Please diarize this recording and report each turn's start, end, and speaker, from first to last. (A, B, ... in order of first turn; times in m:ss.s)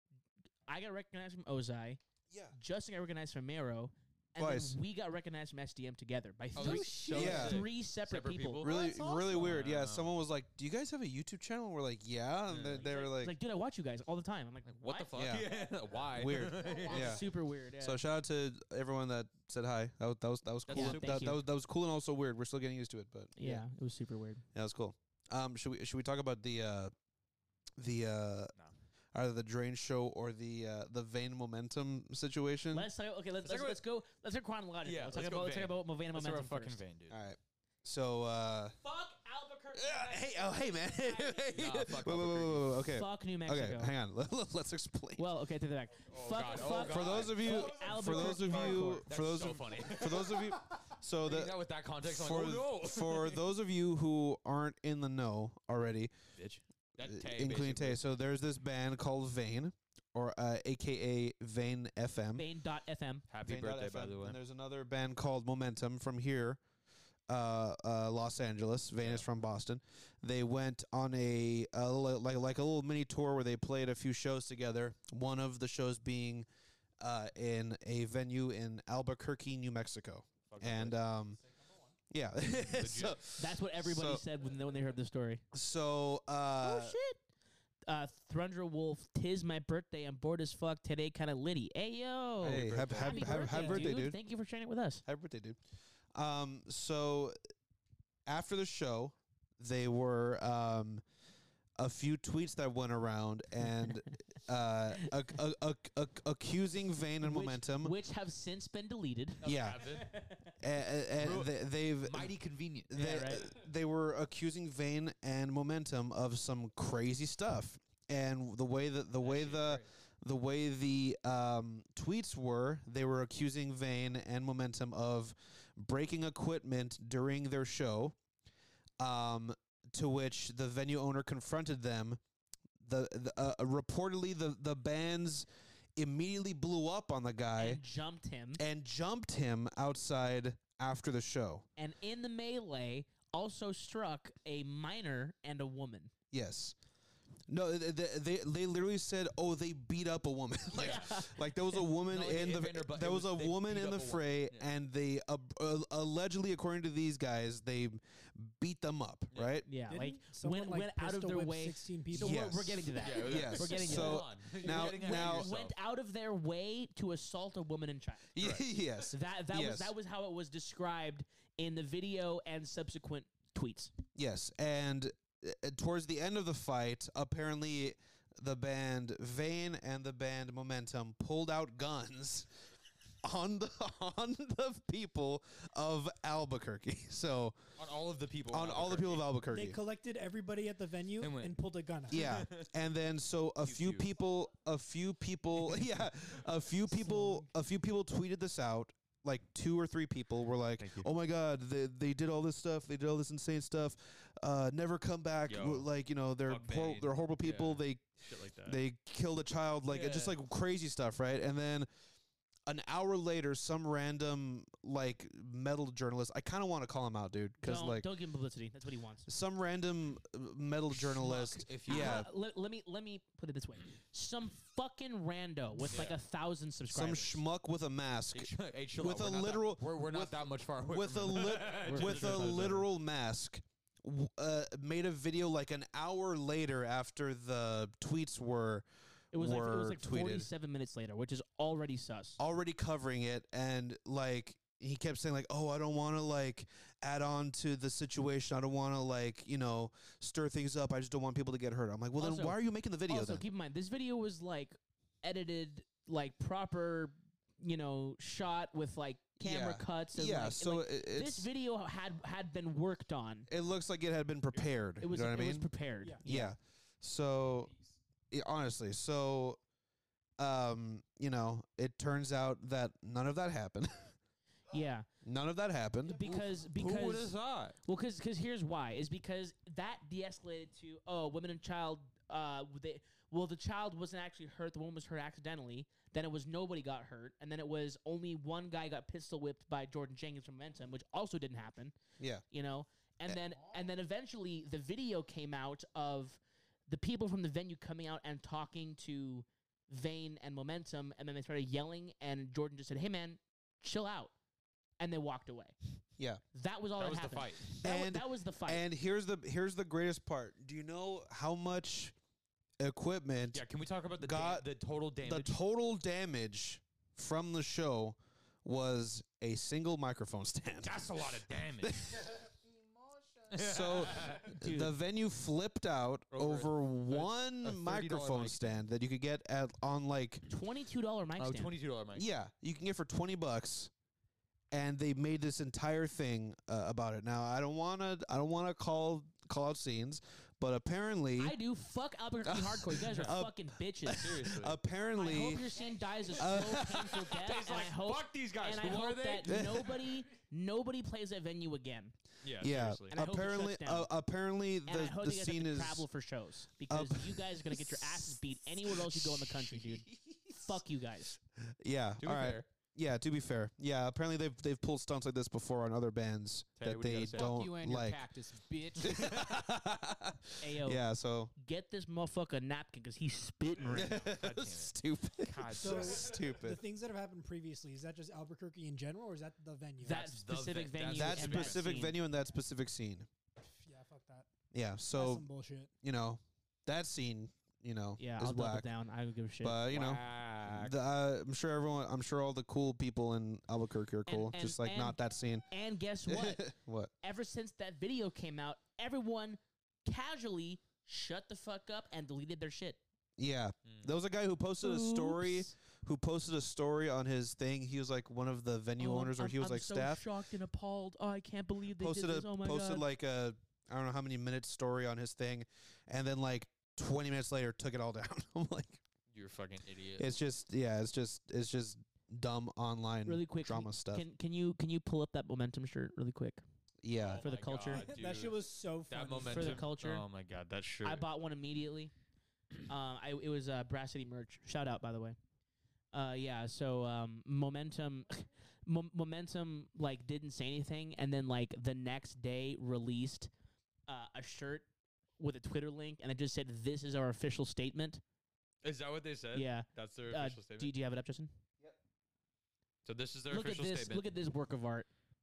0:00.7-0:02.0 A
0:02.3-0:02.6 B
0:02.5-0:09.5 A
0:04.4-0:04.8 B
0:06.6-0:10.1 C
0:06.6-0:07.4 D
0:07.1-0:07.7 B
0:08.6-0:13.4 B
0:12.5-0:12.9 C
0:12.8-0:15.7 A
0:14.6-0:17.2 C
0:15.1-0:15.5 B
0:16.1-0:23.7 B
0:16.7-0:18.0 A
0:20.7-0:21.3 C
0:20.7-0:21.4 A
0:23.4-0:24.4 A
0:24.6-0:26.9 B
0:27.8-0:28.5 B
0:29.1-0:32.9 B
0:32.7-0:36.8 A
0:33.4-0:33.8 C
0:34.8-0:37.2 C
0:37.1-0:38.8 B
0:38.8-0:41.5 A
0:39.7-0:45.3 B
0:41.5-0:42.8 C
0:42.9-0:43.9 A
0:45.2-0:49.1 A
0:46.1-0:53.4 C
0:46.5-0:56.1 B
0:56.4-0:58.0 C
0:57.0-1:02.4 B
1:02.4-1:03.2 A
1:03.3-1:04.4 C
1:03.4-1:06.6 B
1:07.3-1:16.5 B
1:09.0-1:09.3 C
1:17.0-1:21.4 B
1:20.5-1:21.0 C
1:22.1-1:24.2 B
1:22.6-1:23.2 C
1:23.4-1:25.4 A
1:25.5-1:27.0 B
1:26.6-1:27.2 A
1:27.9-1:35.0 A
1:32.4-1:34.2 B
1:32.4-1:33.9 C
1:35.1-1:35.6 B
1:36.1-1:37.4 B
1:38.3-1:41.0 B
1:41.8-1:47.9 B
1:47.2-1:50.5 A
1:49.4-1:50.1 C
1:49.4-1:49.8 B
1:50.6-1:52.3 B
1:51.2-1:52.9 C
1:52.9-2:08.2 B
1:53.0-1:53.5 A
1:59.2-1:59.9 C
2:09.0-2:12.2 B
2:12.8-2:17.8 B
2:17.6-2:18.6 A
2:18.6-2:21.7 B
2:21.8-2:26.1 A
2:26.3-2:26.8 B
2:27.5-2:39.7 B
2:30.7-2:31.2 C
2:30.8-2:31.4 A
2:32.1-2:34.7 C
2:39.7-2:48.3 A
2:39.9-2:42.5 D
2:42.2-2:45.5 B
2:43.0-2:45.7 C
2:48.3-2:49.9 B
2:48.4-2:48.6 C
2:49.1-2:53.9 A
2:54.2-3:02.7 B
3:03.2-3:07.6 B
3:07.8-3:09.3 C
3:08.5-3:09.8 B
3:09.5-3:12.3 D
3:11.2-3:12.7 C
3:12.1-3:31.9 B
3:13.6-3:14.2 C
3:17.0-3:17.5 D
3:20.8-3:21.1 C
3:25.5-3:25.9 C
3:26.5-3:28.8 C
3:29.9-3:30.4 C
3:32.7-3:38.1 B
3:37.6-3:39.3 A
3:39.3-3:42.3 B
3:40.9-3:42.3 C
3:41.9-3:47.4 A
3:45.9-3:46.2 C
3:46.9-4:00.5 B
3:48.3-3:52.8 C
3:51.6-3:52.9 A
3:59.3-4:02.4 A
4:02.4-4:13.4 B
4:12.2-4:23.5 A
4:19.4-4:21.5 B
4:23.5-4:25.7 B
4:25.0-4:26.6 A
4:26.2-4:27.7 B
4:28.3-4:29.6 B
4:30.4-4:34.2 B
4:34.7-4:35.1 A
4:35.2-4:36.5 B
4:36.1-4:52.0 A
4:36.2-4:37.8 C
4:52.2-4:52.4 B
4:52.5-5:04.3 A
5:05.0-5:05.8 A
5:06.5-5:08.8 A
5:07.0-5:07.7 C
5:07.8-5:12.2 B
5:12.8-5:13.6 B
5:13.5-5:15.6 C
5:14.2-5:14.7 B
5:15.2-5:21.3 B
5:20.8-5:22.3 C
5:21.8-5:22.3 B
5:22.7-5:23.5 E
5:23.5-5:24.5 C
5:23.6-5:30.4 B
5:24.6-5:24.9 A
5:26.3-5:28.8 C
5:30.5-5:31.7 A
5:31.4-5:32.3 C
5:32.1-5:33.9 B
5:34.7-5:41.6 B
5:41.4-5:44.3 A
5:42.4-5:45.8 B
5:43.1-5:43.3 C
5:44.2-5:44.8 C
5:45.2-5:52.2 A
5:46.3-5:47.3 B
5:46.7-5:49.9 C
5:49.4-5:50.0 B
5:52.4-5:53.2 C
5:52.6-5:56.1 B
5:53.1-5:54.1 A
5:54.9-6:01.4 A
5:56.9-6:00.8 B
6:01.6-6:08.2 B
6:02.2-6:02.7 C
6:06.8-6:07.6 C
6:07.3-6:09.2 E
6:09.0-6:11.5 B
6:10.6-6:11.0 A
6:11.6-6:14.2 A
6:13.7-6:16.4 C
6:13.9-6:16.8 B
6:15.8-6:20.2 D
6:20.0-6:22.2 A
6:20.1-6:22.1 C
6:21.1-6:23.3 B
6:23.6-6:24.5 D
6:24.7-6:25.5 B
6:25.1-6:25.9 D
6:26.0-6:28.9 B
6:28.2-6:29.9 A
6:29.6-6:35.7 B
6:29.9-6:31.0 C
6:34.3-6:35.2 A
6:35.7-6:36.6 A
6:36.3-6:37.1 B
6:37.2-6:43.0 A
6:43.4-6:50.2 B
6:43.9-6:44.1 C
6:44.8-6:45.7 A
6:49.0-6:53.1 A
6:52.0-6:59.0 B
6:59.3-7:00.3 C
7:00.2-7:04.2 B
7:03.3-7:06.6 A
7:07.0-7:07.4 B
7:07.1-7:11.3 C
7:07.4-7:08.1 A
7:07.9-7:09.9 D
7:09.4-7:10.2 A
7:11.0-7:12.1 A
7:12.9-7:15.4 A
7:16.1-7:23.5 A
7:24.1-7:24.9 A
7:25.4-7:28.2 A
7:28.8-7:30.9 C
7:29.5-7:31.5 A
7:33.0-7:34.3 C
7:33.5-7:35.1 A